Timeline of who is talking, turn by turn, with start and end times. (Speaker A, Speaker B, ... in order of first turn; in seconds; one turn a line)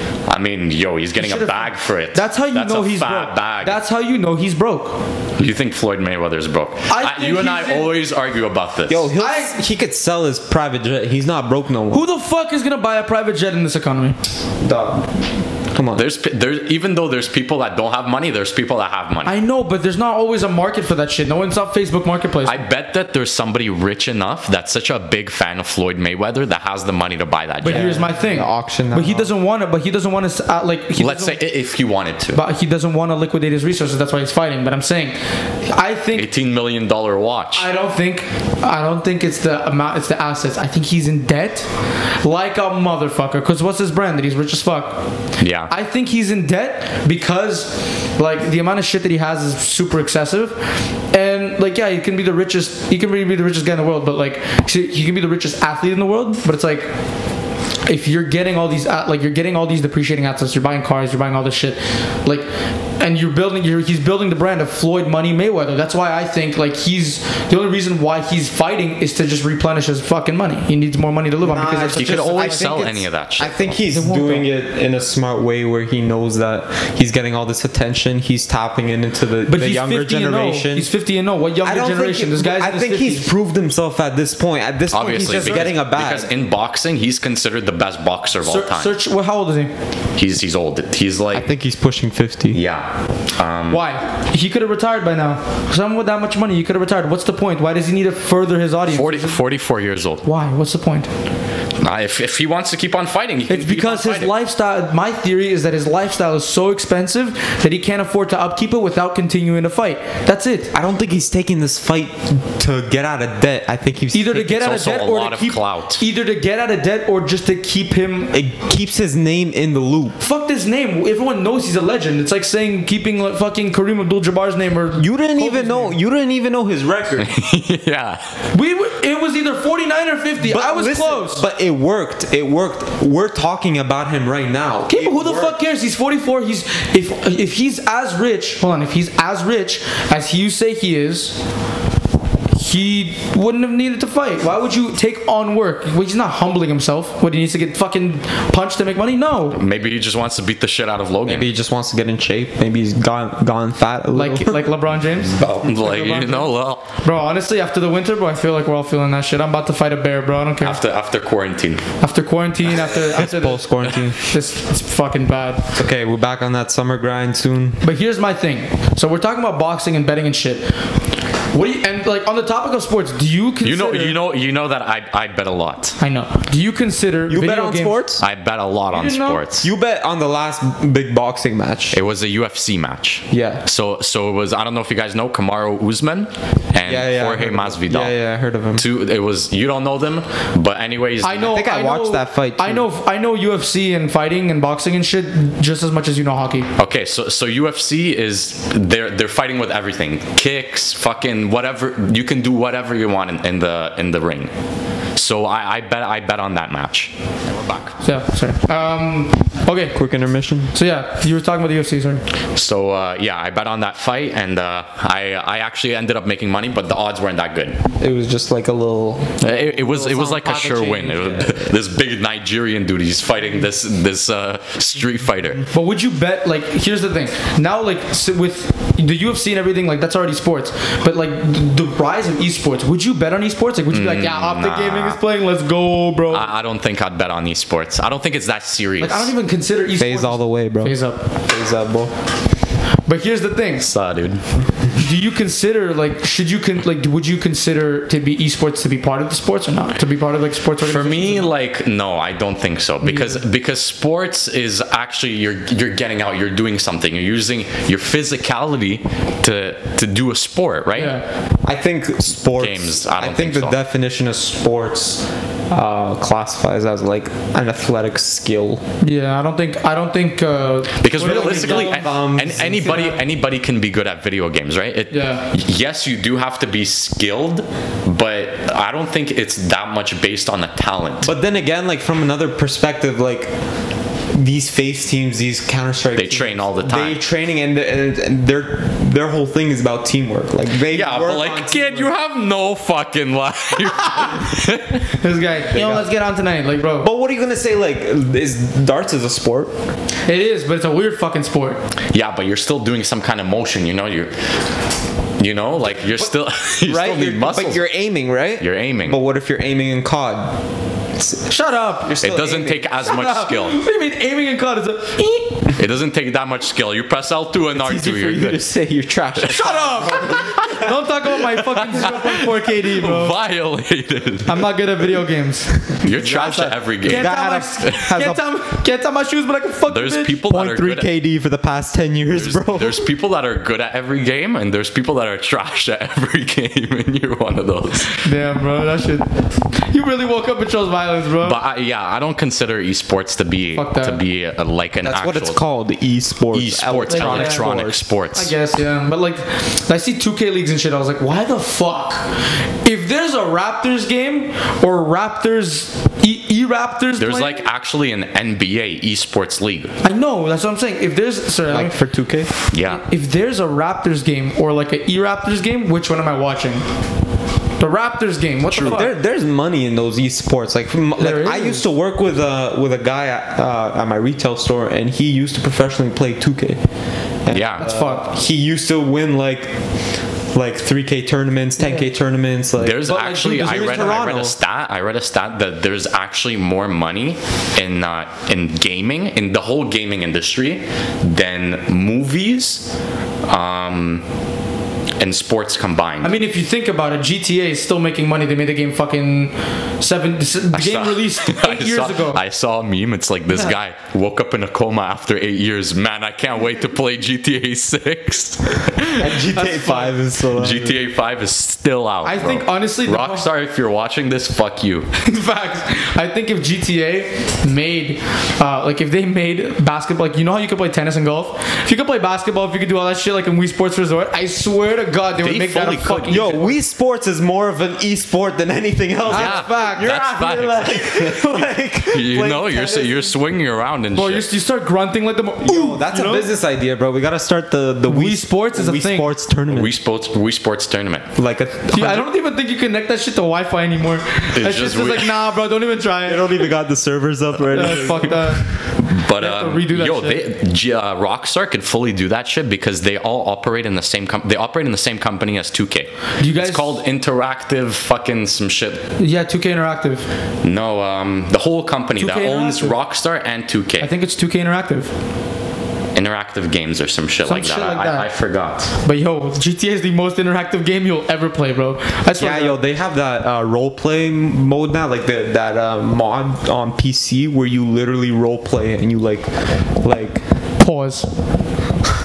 Speaker A: 0.3-3.8
Speaker B: 1.2-5.0
Speaker A: 5.4-9.1
Speaker B: 6.9-7.9
Speaker C: 8.9-12.0
Speaker B: 9.2-9.6
Speaker B: 11.9-14.2
Speaker C: 14.6-15.0
Speaker C: 15.7-16.1
Speaker A: 15.9-19.3
Speaker B: 19.2-22.6
Speaker A: 22.4-28.0
Speaker B: 27.6-31.4
Speaker C: 27.7-29.3
Speaker A: 31.0-32.4
Speaker B: 32.3-36.3
Speaker A: 36.1-37.7
Speaker B: 37.6-41.7
Speaker B: 42.2-45.0
Speaker A: 45.4-45.7
Speaker B: 45.7-50.6
Speaker B: 51.1-56.9
Speaker B: 57.9-62.5
Speaker B: 63.0-72.7
Speaker C: 71.4-80.9
Speaker A: 71.9-73.8
Speaker B: 73.9-74.5
Speaker B: 79.5-83.3
Speaker C: 81.6-86.3
Speaker A: 84.9-88.9
Speaker B: 85.3-85.7
Speaker B: 88.4-89.7
Speaker A: 90.2-91.5
Speaker C: 91.3-92.6
Speaker A: 92.5-93.8
Speaker B: 93.7-99.4
Speaker A: 98.9-100.2
Speaker B: 100.2-101.1
Speaker A: 101.8-104.3
Speaker B: 103.5-110.7
Speaker C: 110.7-114.4
Speaker B: 114.1-118.3
Speaker A: 114.3-116.0
Speaker C: 118.3-120.2
Speaker B: 120.2-126.0
Speaker C: 125.0-127.3
Speaker A: 127.2-128.2
Speaker B: 128.5-131.4
Speaker C: 130.4-135.6
Speaker B: 134.9-141.4
Speaker B: 142.6-149.6
Speaker A: 149.5-151.5
Speaker C: 151.3-154.6
Speaker B: 154.1-160.8
Speaker A: 155.4-156.9
Speaker C: 155.4-155.7
Speaker A: 160.6-161.8
Speaker B: 162.0-165.7
Speaker C: 162.7-164.2
Speaker C: 165.8-167.8
Speaker B: 167.8-170.7
Speaker B: 171.5-174.2
Speaker A: 173.6-176.0
Speaker B: 176.0-178.1
Speaker C: 177.3-178.2
Speaker A: 178.2-179.7
Speaker B: 178.9-179.4
Speaker C: 179.6-182.0
Speaker A: 181.9-188.1
Speaker C: 183.3-183.6
Speaker C: 186.8-188.8
Speaker A: 188.8-191.5
Speaker B: 191.2-196.7
Speaker C: 191.4-192.9
Speaker A: 196.8-204.5
Speaker A: 205.2-208.0
Speaker B: 208.0-210.0
Speaker C: 209.9-210.7
Speaker B: 210.7-212.2
Speaker A: 212.6-217.8
Speaker C: 218.0-221.7
Speaker A: 219.4-225.6
Speaker B: 219.9-221.4
Speaker B: 225.7-236.5
Speaker A: 233.9-235.2
Speaker A: 236.3-239.3
Speaker B: 239.0-241.2
Speaker C: 240.0-241.0
Speaker C: 241.5-242.1
Speaker B: 243.1-243.9
Speaker A: 243.8-244.4
Speaker B: 244.9-251.5
Speaker A: 250.8-261.2
Speaker B: 253.0-253.4
Speaker B: 261.0-261.2
Speaker C: 261.6-268.8
Speaker A: 262.6-263.8
Speaker B: 269.0-272.1
Speaker A: 271.0-281.3
Speaker C: 271.2-273.2
Speaker B: 272.9-273.2
Speaker B: 275.1-275.5
Speaker C: 281.2-283.5
Speaker C: 284.3-292.1
Speaker A: 286.2-287.2
Speaker A: 290.9-295.1
Speaker B: 295.1-297.1
Speaker C: 295.6-296.1
Speaker C: 297.0-299.7
Speaker B: 300.3-301.8
Speaker A: 302.1-304.3
Speaker A: 305.4-307.8
Speaker C: 306.9-310.6
Speaker A: 308.6-309.2
Speaker C: 311.2-311.4
Speaker B: 311.5-312.2
Speaker C: 312.0-312.9
Speaker A: 312.2-313.8
Speaker B: 313.0-315.7
Speaker A: 315.7-318.6
Speaker C: 317.7-320.9
Speaker A: 319.4-320.9
Speaker B: 319.5-323.4
Speaker A: 321.4-324.7
Speaker B: 324.5-325.7
Speaker C: 326.0-328.4
Speaker A: 326.0-328.1
Speaker B: 327.0-330.4
Speaker A: 329.9-331.1
Speaker C: 330.4-333.1
Speaker A: 332.3-338.2
Speaker B: 338.1-339.3
Speaker B: 339.9-341.6
Speaker A: 341.4-345.6
Speaker B: 343.8-344.2
Speaker C: 345.0-348.1
Speaker A: 346.5-348.5
Speaker B: 347.1-347.7
Speaker B: 348.4-352.3
Speaker B: 352.8-357.6
Speaker A: 357.2-359.9
Speaker B: 360.0-361.9
Speaker C: 361.7-362.5
Speaker A: 362.7-363.0
Speaker B: 362.9-366.9
Speaker B: 367.8-369.1
Speaker A: 368.7-369.0
Speaker C: 368.9-376.8
Speaker B: 371.2-371.8
Speaker C: 377.4-379.7
Speaker A: 377.5-377.9
Speaker B: 377.8-378.2
Speaker C: 380.5-384.6
Speaker A: 382.8-392.9
Speaker B: 383.0-384.3
Speaker A: 393.5-394.2
Speaker A: 395.2-396.3
Speaker B: 396.2-402.4
Speaker A: 400.7-409.4
Speaker B: 403.5-403.8
Speaker C: 409.2-411.0
Speaker B: 409.5-410.1
Speaker A: 410.5-415.1
Speaker B: 412.2-413.5
Speaker B: 415.2-426.8
Speaker A: 425.4-426.6
Speaker C: 426.3-433.3
Speaker B: 429.3-430.1
Speaker A: 429.3-434.4
Speaker B: 434.1-436.5
Speaker C: 435.6-439.9
Speaker B: 438.1-439.3
Speaker A: 439.7-441.3
Speaker C: 441.4-442.3
Speaker B: 441.9-446.5
Speaker A: 444.6-445.3
Speaker C: 446.3-448.4
Speaker A: 447.7-448.4
Speaker B: 447.7-448.6
Speaker A: 449.0-459.0
Speaker B: 449.4-450.4
Speaker B: 456.4-457.0
Speaker B: 459.2-460.3
Speaker A: 460.6-464.1
Speaker B: 462.2-463.0
Speaker B: 464.0-465.1
Speaker A: 466.1-468.9
Speaker B: 467.5-468.3
Speaker B: 469.0-472.8
Speaker C: 472.4-479.5
Speaker C: 480.0-480.4
Speaker B: 480.8-481.3